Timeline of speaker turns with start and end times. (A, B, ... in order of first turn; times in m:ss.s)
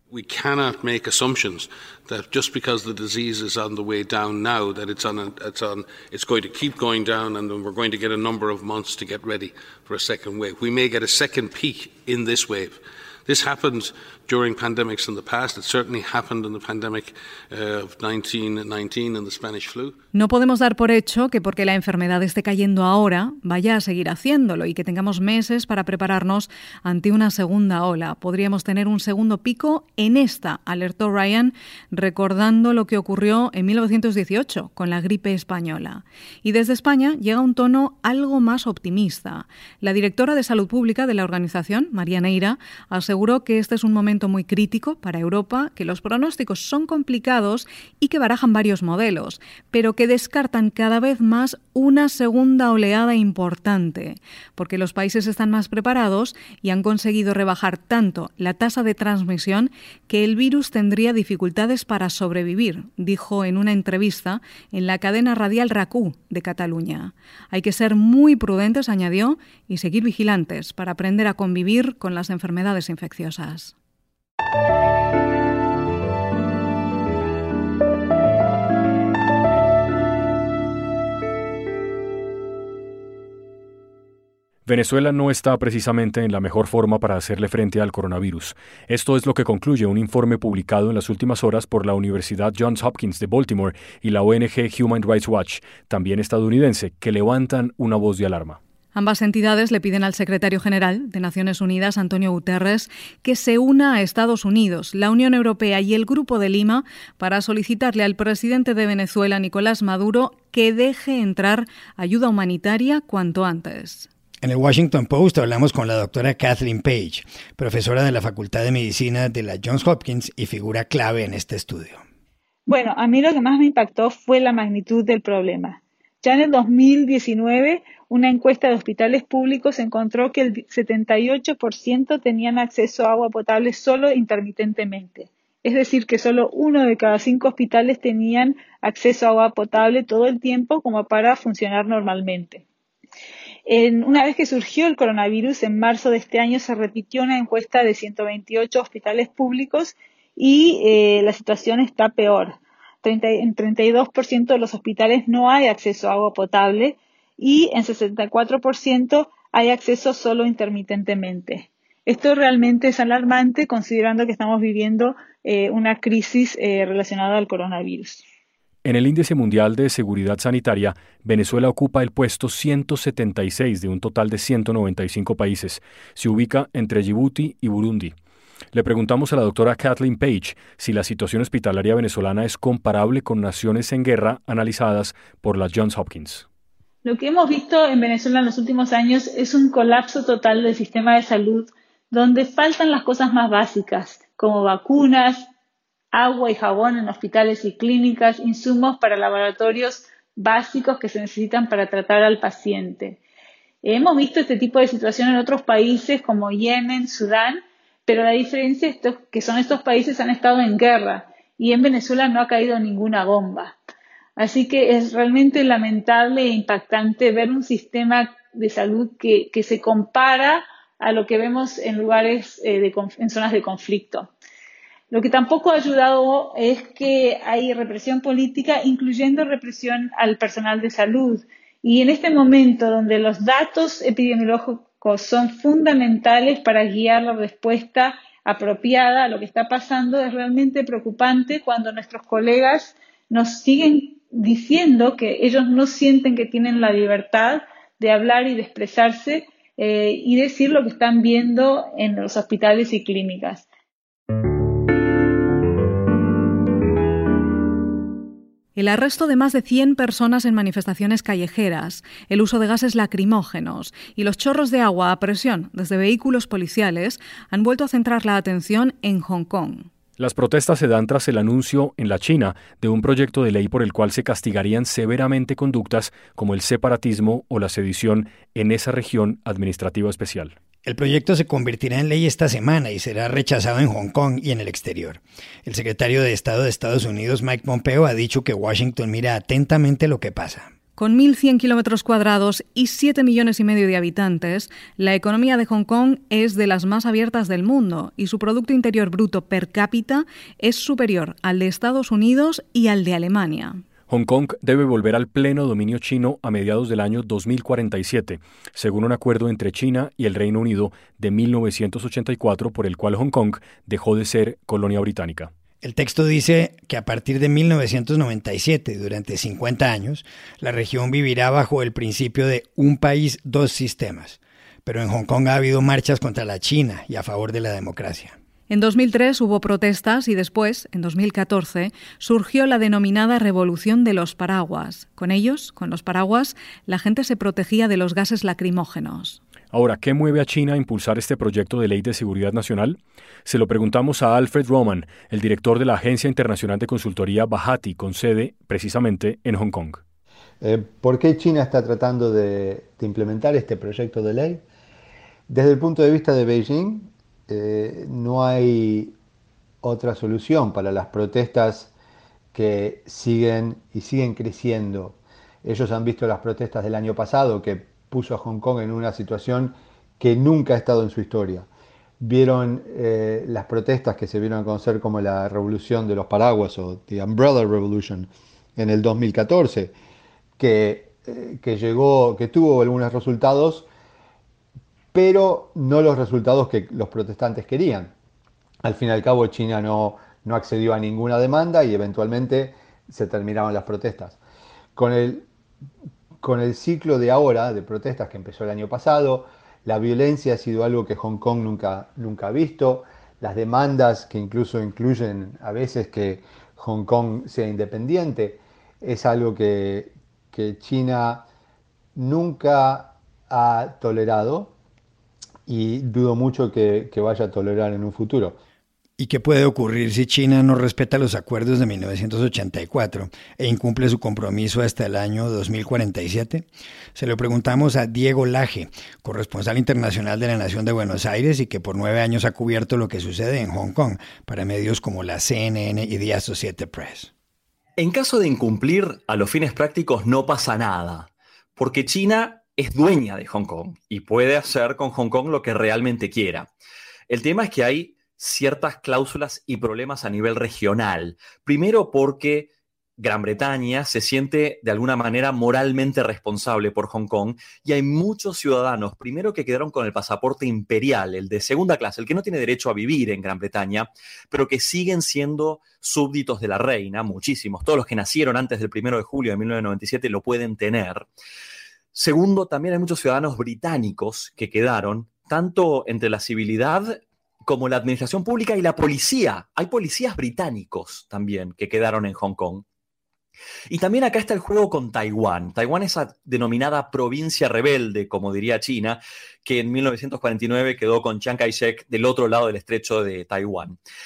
0:00.1-0:19.9 A
0:20.1-1:13.7 B
1:24.7-1:38.6 C
1:38.9-1:54.1 B
1:54.4-2:02.0 D
2:02.7-2:22.6 E
2:23.7-2:48.2 E
2:48.8-2:58.2 C
2:58.7-3:06.5 C
3:07.0-3:15.5 E
3:16.1-3:23.2 E
3:23.8-3:33.8 E
3:34.4-3:44.3 E
3:45.1-4:13.6 E
4:18.8-4:29.9 B
4:30.2-4:40.6 C
4:40.8-4:50.7 D
4:51.0-5:03.8 B
5:04.1-5:15.5 C
5:15.8-5:28.4 D
5:28.7-5:39.4 B
5:39.7-5:50.0 C
5:50.6-5:54.6 F
5:55.5-5:59.1 F
5:59.8-6:01.9 F
6:02.5-6:11.7 F
6:12.2-6:19.9 F
6:20.6-6:23.9 F
6:25.1-6:28.1 F
6:28.8-6:34.4 F
6:35.0-6:35.4 F
6:36.4-6:51.5 F
6:52.2-6:54.7 F
6:55.7-6:58.6 F
6:59.2-7:17.3 D
7:18.0-7:26.7 G
7:27.3-7:51.3 G
7:52.1-8:02.8 G
8:03.9-8:14.0 G